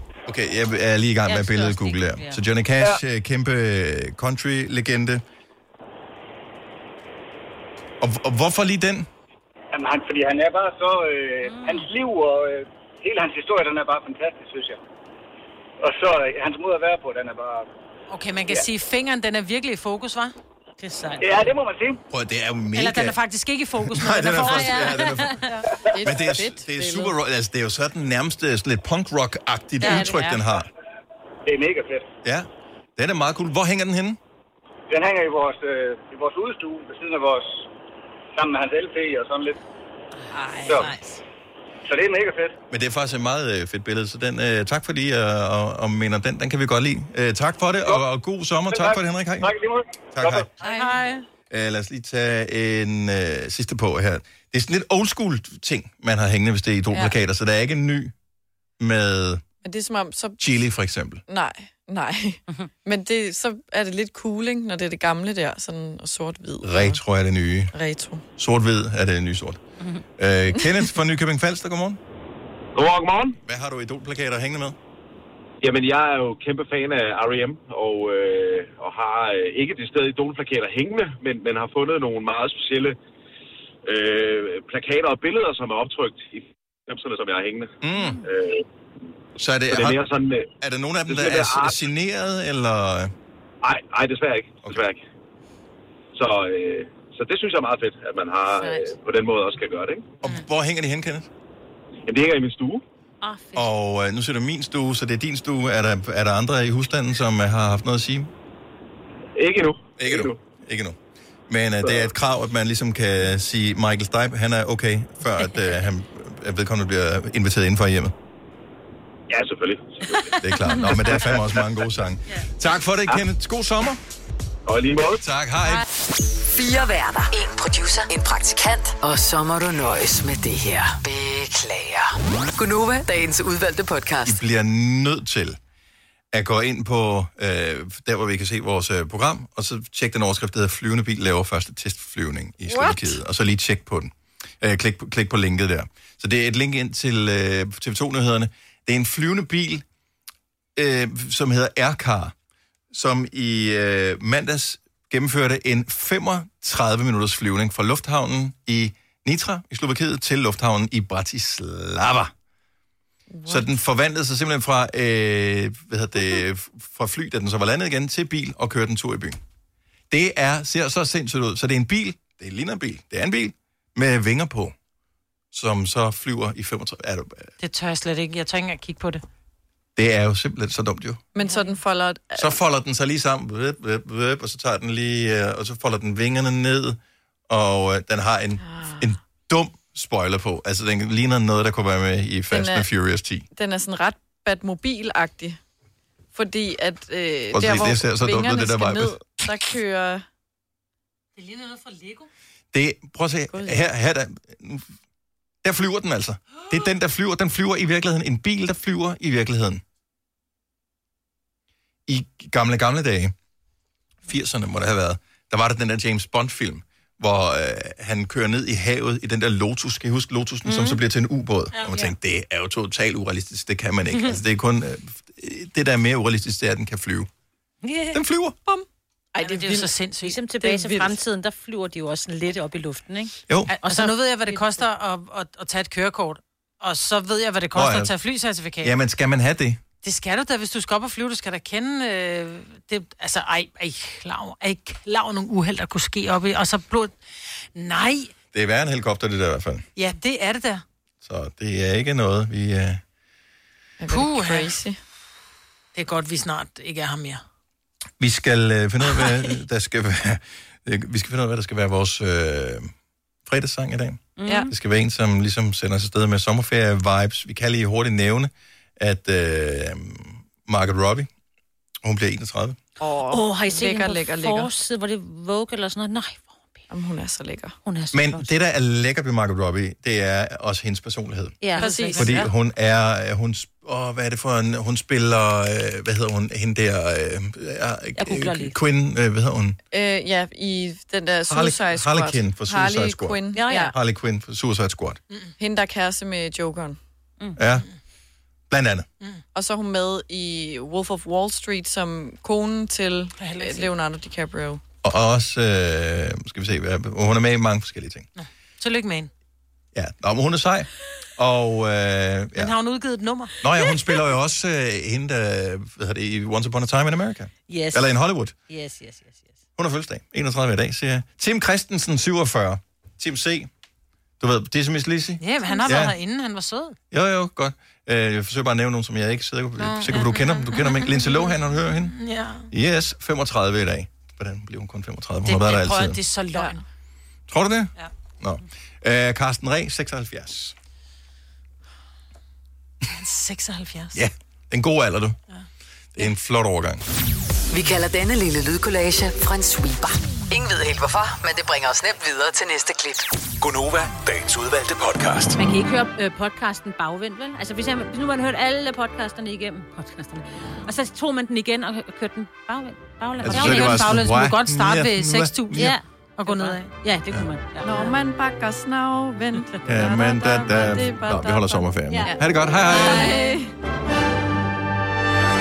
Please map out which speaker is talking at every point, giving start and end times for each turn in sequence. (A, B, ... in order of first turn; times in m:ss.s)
0:00.3-0:05.2 A
0:01.3-0:02.4 B
0:08.0-0:09.1 A
0:09.7-0:14.8 C
0:11.4-0:11.9 B
0:15.8-0:17.7 C
0:18.1-0:20.3 D
0:20.8-0:21.6 B
0:21.2-0:22.0 C
0:22.1-0:23.2 A
0:22.7-0:25.0 D
0:23.8-0:30.7 A
0:24.4-0:25.6 B
0:25.9-0:27.2 E
0:29.8-0:30.4 B
0:29.8-0:30.3 E
0:31.5-0:32.1 C
0:32.2-0:34.2 A
0:34.9-0:37.6 C
0:38.4-0:39.6 C
0:40.3-0:41.2 B
0:41.9-0:42.6 C
0:42.7-0:49.6 A
0:48.7-0:50.5 C
0:50.1-0:50.5 A
0:50.6-0:51.2 E
0:50.6-0:51.0 D
0:51.5-0:58.1 A
0:56.9-0:57.2 E
0:58.8-0:59.4 A
0:59.6-1:00.4 E
1:00.4-1:01.2 A
1:01.3-1:07.0 E
1:06.6-1:07.7 A
1:07.7-1:08.2 E
1:08.4-1:09.6 A
1:10.2-1:12.0 A
1:12.8-1:13.4 F
1:13.4-1:14.8 A
1:15.6-1:23.0 F
1:23.9-1:28.6 F
1:27.8-1:28.2 A
1:29.4-1:30.0 A
1:29.7-1:30.5 F
1:30.6-1:33.1 A
1:31.0-1:31.8 F
1:33.6-1:35.0 F
1:36.2-1:40.2 F
1:38.5-1:39.0 B
1:40.2-1:41.3 A
1:42.1-1:42.8 F
1:43.2-1:43.7 B
1:43.6-1:48.3 A
1:49.4-1:50.4 F
1:50.0-1:51.0 A
1:51.5-1:58.1 A
1:51.8-1:52.1 F
1:59.3-2:00.4 F
2:00.4-2:04.0 A
2:00.7-2:01.1 E
2:01.2-2:01.6 F
2:04.7-2:05.2 F
2:05.2-2:05.8 A
2:06.4-2:14.4 G
2:14.2-2:15.6 A
2:16.3-2:29.8 A
2:22.7-2:23.2 E
2:30.8-2:32.3 A
2:32.9-2:42.3 A
2:43.3-2:43.8 E
2:43.5-2:49.4 A
2:50.1-2:54.7 A
2:55.5-2:57.5 A
2:57.6-2:59.2 D
3:00.0-3:01.2 A
3:01.4-3:02.6 E
3:02.4-3:07.0 A
3:07.5-3:13.5 A
3:08.6-3:09.1 E
3:12.5-3:12.9 E
3:13.5-3:15.6 E
3:16.3-3:20.2 E
3:17.5-3:19.2 A
3:21.4-3:22.3 D
3:22.7-3:24.9 A
3:23.5-3:23.9 E
3:25.6-3:29.8 A
3:32.1-3:33.3 A
3:34.3-3:47.3 A
3:41.8-3:42.1 B
3:47.8-3:48.2 B
3:48.1-3:48.6 A
3:49.4-3:49.9 E
3:49.4-3:50.4 D
3:49.6-3:54.8 B
3:50.6-3:51.2 E
3:53.7-3:58.9 D
3:57.7-3:58.1 A
3:58.8-3:59.8 A
4:00.0-4:07.1 D
4:07.8-4:08.3 D
4:08.5-4:09.8 A
4:10.0-4:10.8 D
4:11.2-4:13.0 A
4:14.0-4:15.0 E
4:14.1-4:14.7 D
4:16.0-4:17.4 D
4:18.2-4:22.9 A
4:23.5-4:31.3 A
4:24.4-4:24.7 B
4:32.0-4:32.8 A
4:33.0-4:34.7 E
4:33.3-4:36.8 B
4:36.9-4:37.7 E
4:37.8-4:38.5 B
4:38.1-4:41.6 A
4:41.6-4:42.4 B
4:41.8-4:42.5 E
4:42.2-4:49.8 A
4:48.2-4:48.8 B
4:49.9-4:54.0 E
4:51.5-4:55.2 A
4:53.5-4:53.9 B
4:55.6-4:57.0 E
4:57.6-4:57.9 A
4:58.7-4:59.1 A
4:59.6-5:04.8 E
5:03.4-5:03.9 D
5:05.0-5:08.3 A
5:08.4-5:09.3 D
5:09.9-5:12.7 A
5:12.6-5:13.6 D
5:13.6-5:18.5 A
5:17.7-5:18.1 B
5:18.7-5:19.5 B
5:19.8-5:23.7 A
5:24.4-5:26.2 A
5:25.4-5:27.0 D
5:27.1-5:32.2 A
5:29.8-5:31.5 D
5:32.0-5:32.7 D
5:32.7-5:36.2 A
5:35.4-5:36.8 D
5:36.5-5:36.8 E
5:37.5-5:40.7 A
5:43.1-5:44.2 D
5:44.1-5:45.4 A
5:46.2-5:47.0 A
5:47.7-5:53.4 G
5:53.6-5:55.6 H
5:55.6-6:04.2 B
6:03.4-6:06.0 A
6:03.5-6:06.9 D
6:05.7-6:08.2 B
6:07.8-6:13.7 E
6:09.8-6:13.4 A
6:12.1-6:13.6 B